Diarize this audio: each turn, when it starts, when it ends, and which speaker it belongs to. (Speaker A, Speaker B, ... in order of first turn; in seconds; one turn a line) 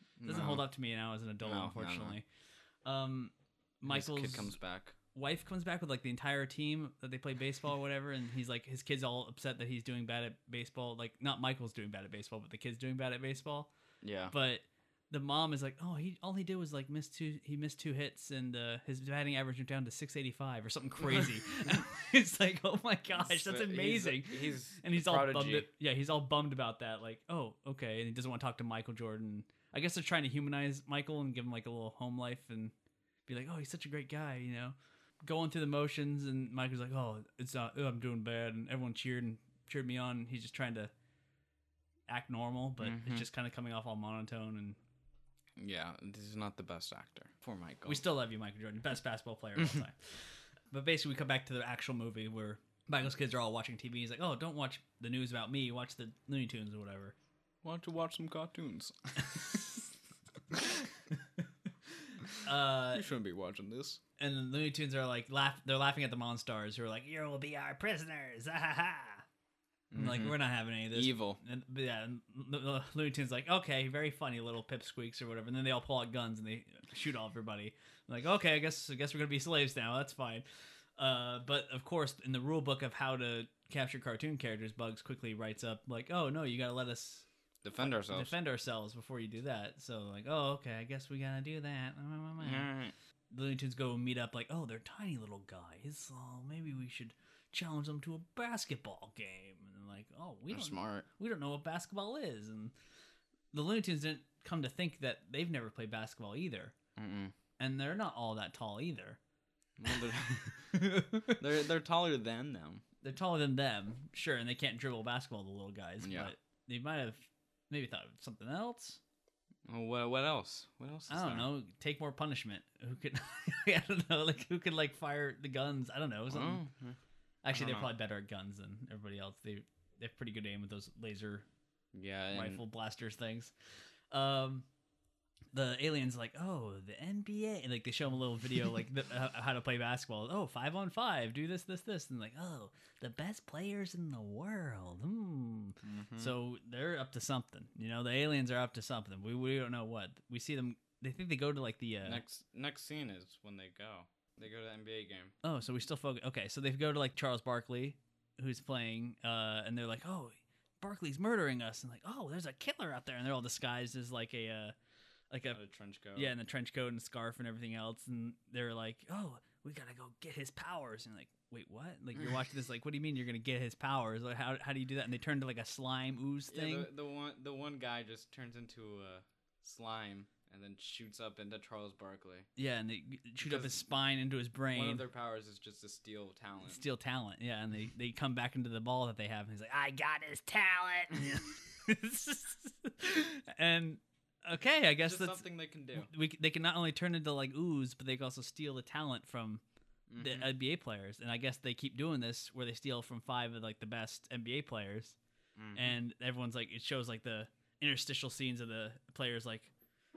Speaker A: 0.2-0.6
Speaker B: 0.2-2.2
Speaker A: 1.4-2.1
Speaker B: 2.9-4.6
Speaker A: 3.9-5.0
Speaker B: 5.1-13.7
Speaker A: 14.0-14.3
Speaker B: 14.3-32.7
Speaker A: 23.2-25.7
Speaker B: 33.3-40.9
Speaker B: 42.1-44.8
Speaker A: 42.8-43.2
Speaker A: 45.6-48.0
Speaker B: 47.9-50.2
Speaker B: 50.7-57.1
Speaker A: 57.6-59.6
Speaker B: 62.4-63.1
Speaker A: 62.9-64.0
Speaker B: 64.2-69.2
Speaker A: 69.9-70.4
Speaker B: 69.9-80.4
Speaker A: 70.9-71.4
Speaker B: 81.0-87.2
Speaker A: 87.6-88.3
Speaker B: 87.8-92.7
Speaker A: 92.4-92.9
Speaker B: 93.3-102.7
Speaker A: 100.5-101.0
Speaker B: 103.5-106.7
Speaker A: 107.0-107.3
Speaker B: 107.6-109.2
Speaker A: 109.8-110.7
Speaker B: 110.7-111.4
Speaker A: 111.3-112.8
Speaker B: 113.0-119.0
Speaker A: 116.0-116.3
Speaker A: 119.7-121.5
Speaker B: 121.1-126.6
Speaker A: 126.3-127.0
Speaker B: 127.4-131.4
Speaker A: 127.5-127.9
Speaker A: 131.9-132.6
Speaker B: 132.3-133.5
Speaker B: 134.1-134.7
Speaker B: 135.5-152.2
Speaker A: 145.8-146.3
Speaker A: 152.0-155.3
Speaker B: 155.4-164.7
Speaker B: 165.3-165.6
Speaker A: 165.5-166.3
Speaker B: 166.1-176.9
Speaker A: 176.5-182.5
Speaker B: 182.6-185.0
Speaker A: 183.4-183.8
Speaker A: 184.7-186.8
Speaker B: 186.7-195.4
Speaker A: 195.0-196.1
Speaker B: 195.9-199.6
Speaker A: 200.1-200.5
Speaker B: 200.2-205.2
Speaker A: 205.6-206.0
Speaker B: 205.7-209.7